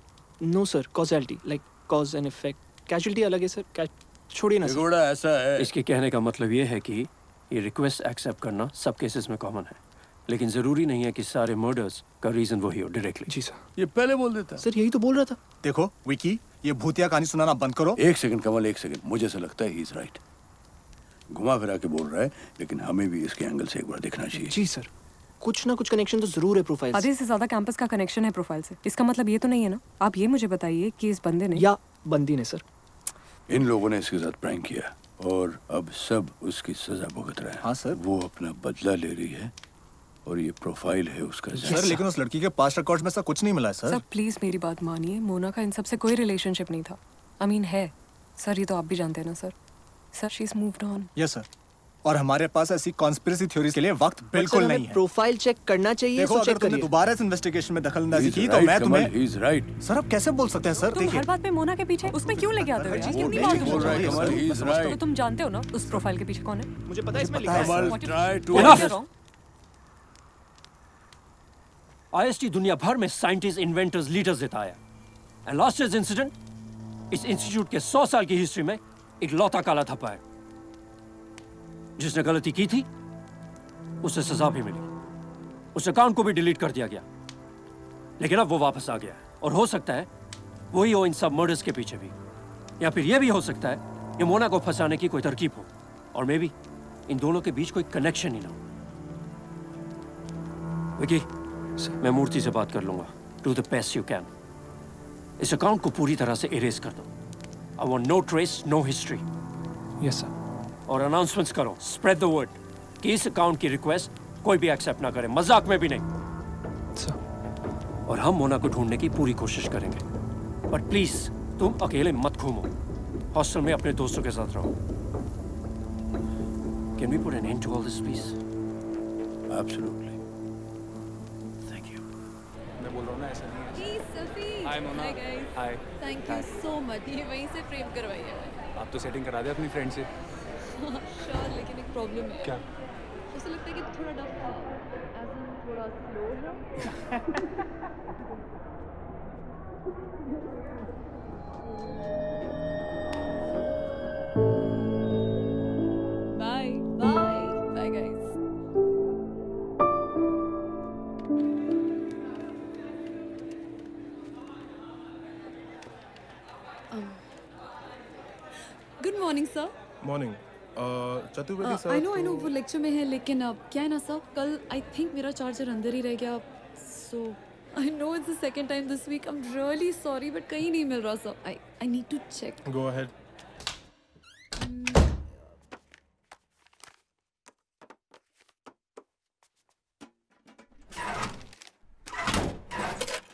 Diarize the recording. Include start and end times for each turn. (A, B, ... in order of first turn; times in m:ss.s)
0:00.4-0:04.8 A
0:04.6-0:05.7 B
0:05.6-0:13.3 C
0:13.3-0:13.6 A
0:13.8-0:14.7 B
0:14.6-0:15.4 A
0:15.6-0:18.0 D
0:18.0-0:20.2 B
0:21.3-0:24.6 B
0:24.4-0:24.9 A
0:25.4-0:27.1 A
0:26.9-0:31.7 E
0:31.6-0:32.6 A
0:33.5-0:39.5 B
0:37.6-0:38.0 D
0:40.2-0:42.0 B
0:41.6-0:44.0 D
0:41.7-0:42.0 A
0:43.9-0:49.5 E
0:50.1-0:51.1 E
0:51.2-0:51.5 D
0:52.0-0:55.0 D
0:54.3-0:56.9 A
0:56.2-0:59.1 D
0:58.1-0:59.7 B
0:59.8-1:01.3 D
1:00.9-1:06.7 E
1:02.0-1:04.6 D
1:02.9-1:05.0 B
1:06.9-1:08.0 A
1:07.2-1:09.0 B
1:07.5-1:09.1 E
1:08.5-1:08.9 C
1:12.1-1:14.8 C
1:15.5-1:16.4 C
1:17.1-1:20.2 C
1:22.0-1:22.9 C
1:24.0-1:24.8 C
1:25.7-1:27.0 C
1:28.2-1:30.1 C
1:30.7-1:32.1 C
1:32.8-1:36.5 C
1:37.1-1:38.6 C
1:41.0-1:41.3 C
1:42.0-1:44.3 C
1:45.4-1:47.1 C
1:47.8-1:49.2 C
1:50.0-1:50.3 A
1:50.9-1:56.0 C
1:58.1-2:00.0 C
2:00.7-2:02.7 C
2:03.3-2:04.7 C
2:07.0-2:08.4 C
2:09.5-2:10.2 B
2:11.7-2:12.0 B
2:12.8-2:14.0 F
2:13.7-2:18.6 G
2:14.6-2:16.6 F
2:18.8-2:20.1 F
2:20.8-2:22.6 G
2:23.3-2:24.8 G
2:36.3-2:38.3 G
2:46.9-2:47.2 G
2:49.0-2:49.7 G
2:50.0-2:52.4 H
2:51.6-3:02.6 G
3:02.6-3:03.1 H
3:04.6-3:05.0 G